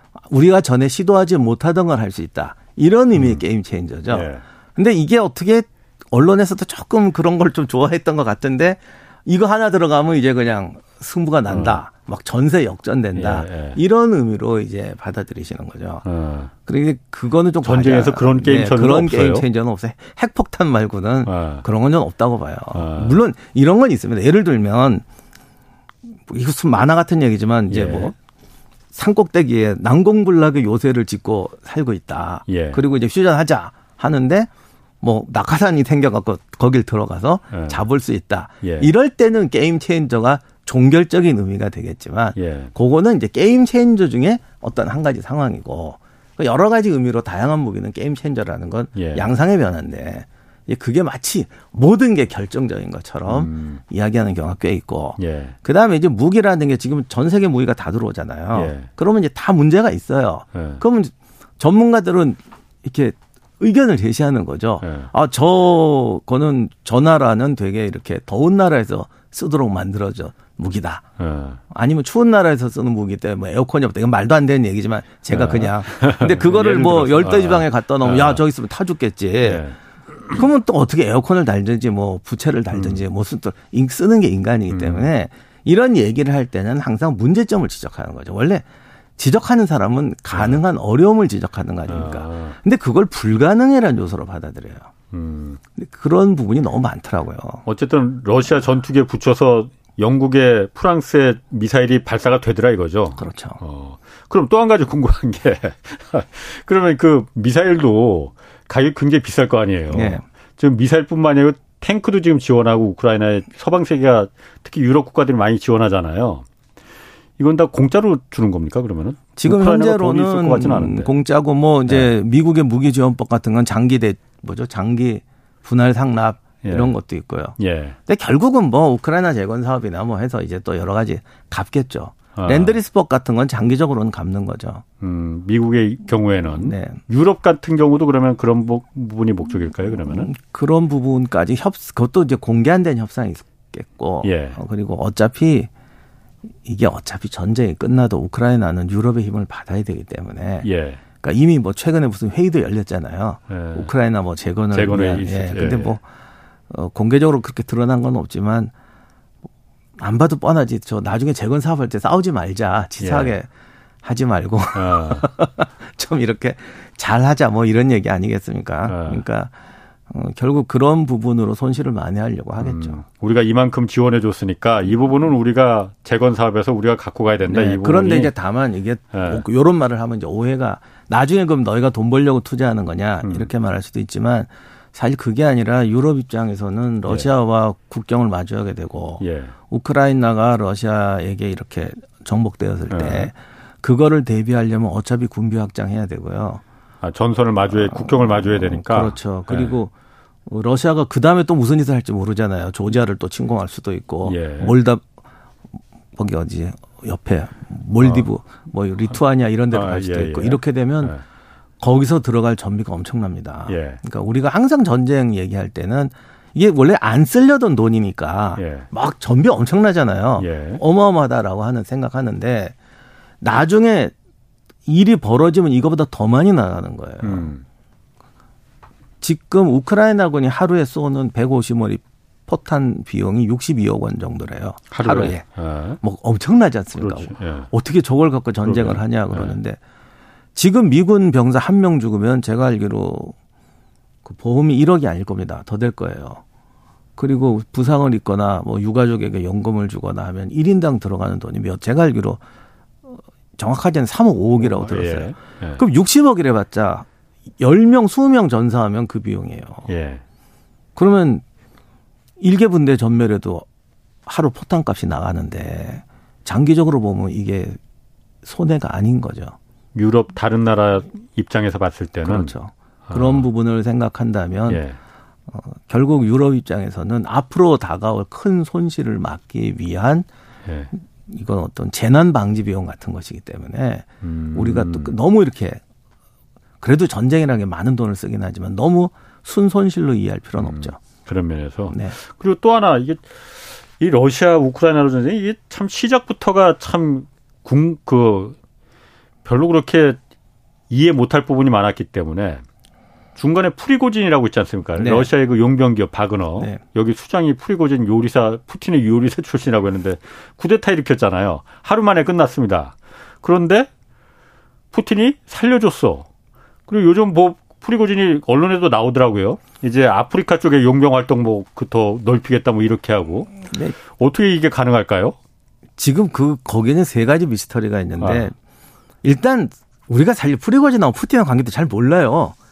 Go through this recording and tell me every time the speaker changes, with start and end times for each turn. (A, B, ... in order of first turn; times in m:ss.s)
0:00.3-0:16.0 A
0:03.2-0:03.4 B
0:04.1-0:04.4 B
0:11.5-0:11.8 B
0:13.1-0:13.8 B
0:16.0-0:16.5 B
0:16.6-0:25.0 A
0:17.6-0:19.4 B
0:21.3-0:21.6 B
0:22.7-0:23.2 B
0:26.3-0:28.1 A
0:27.7-0:28.1 B
0:28.9-0:34.5 A
0:32.5-0:32.8 B
0:35.0-1:11.0 A
0:37.5-0:37.8 B
0:38.6-0:38.9 B
0:42.4-0:42.7 B
0:48.9-0:49.3 B
0:53.2-0:53.8 B
0:55.2-0:55.5 B
0:58.5-0:58.9 B
1:00.5-1:00.8 B
1:04.8-1:05.1 B
1:11.2-1:11.6 B
1:11.7-1:19.6 A
1:15.3-1:18.4 B
1:19.4-1:20.4 B
1:20.3-1:28.6 A
1:22.7-1:23.0 B
1:24.7-1:25.1 B
1:29.2-1:34.9 A
1:30.3-1:30.6 B
1:31.9-1:32.6 B
1:35.1-1:35.6 B
1:35.7-1:37.6 A
1:37.6-1:56.4 B
1:43.2-1:43.6 A
1:49.9-1:50.2 A
1:57.4-2:01.1 B
1:59.4-2:14.8 A
2:06.6-2:06.9 B
2:07.6-2:08.0 B
2:12.4-2:12.8 B
2:15.0-2:20.3 B
2:16.6-2:17.0 A
2:20.0-2:25.7 A
2:24.2-2:24.6 B
2:26.6-2:30.7 A
2:30.6-2:31.0 B
2:31.2-2:36.0 A
2:33.5-2:33.9 B
2:34.7-2:35.9 B
2:36.7-2:38.7 A
2:40.0-2:43.5 A
2:43.0-2:43.3 B
2:44.0-2:49.5 A
2:44.7-2:45.3 B
2:48.9-2:49.2 B
2:50.1-2:53.0 A
2:52.6-2:58.3 B
2:57.5-3:16.6 A
2:59.1-2:59.4 B
3:03.2-3:03.5 B
3:09.2-3:09.5 B
3:12.9-3:13.3 B
3:17.0-3:19.7 B
3:17.7-3:19.9 A
3:20.5-3:25.0 A
3:24.2-3:24.7 B
3:26.2-3:31.1 A
3:28.0-3:28.3 B
3:29.7-3:31.2 B
3:31.8-3:42.7 A
3:33.7-3:34.0 B
3:38.6-3:38.9 B
3:40.4-3:40.8 B
3:43.4-3:44.1 A
3:44.9-3:47.5 A
3:47.2-3:47.6 B
3:49.2-3:55.4 A
3:54.9-3:56.0 B
3:56.0-3:59.8 A
3:57.0-3:57.7 B
3:58.6-3:59.6 B
4:00.5-4:03.3 A
4:04.2-4:06.4 A
4:07.2-4:12.4 A
4:13.6-4:17.1 A
4:14.6-4:15.8 B
4:17.6-4:19.9 A
4:19.9-4:20.2 B
4:21.0-4:21.4 A
4:22.4-4:23.6 A
4:24.2-4:27.8 A
4:28.4-4:29.5 A
4:29.9-4:32.5 B
4:32.2-4:34.8 A
4:33.1-4:33.5 B
4:34.7-4:35.0 B
4:35.5-4:40.3 A
4:40.6-4:40.9 B
4:41.3-4:45.8 A
4:44.2-4:45.1 B
4:46.8-4:51.0 A
4:50.6-4:58.6 B
4:51.9-4:52.2 A
4:59.4-5:00.2 B
5:00.9-5:02.6 B
5:03.4-5:13.9 B
5:05.0-5:05.3 A
5:14.9-5:16.3 B
5:16.9-5:23.5 B
5:23.7-5:24.0 A
5:24.1-5:25.4 B
5:26.0-5:28.5 A
5:28.2-5:28.5 B
5:29.2-5:32.6 A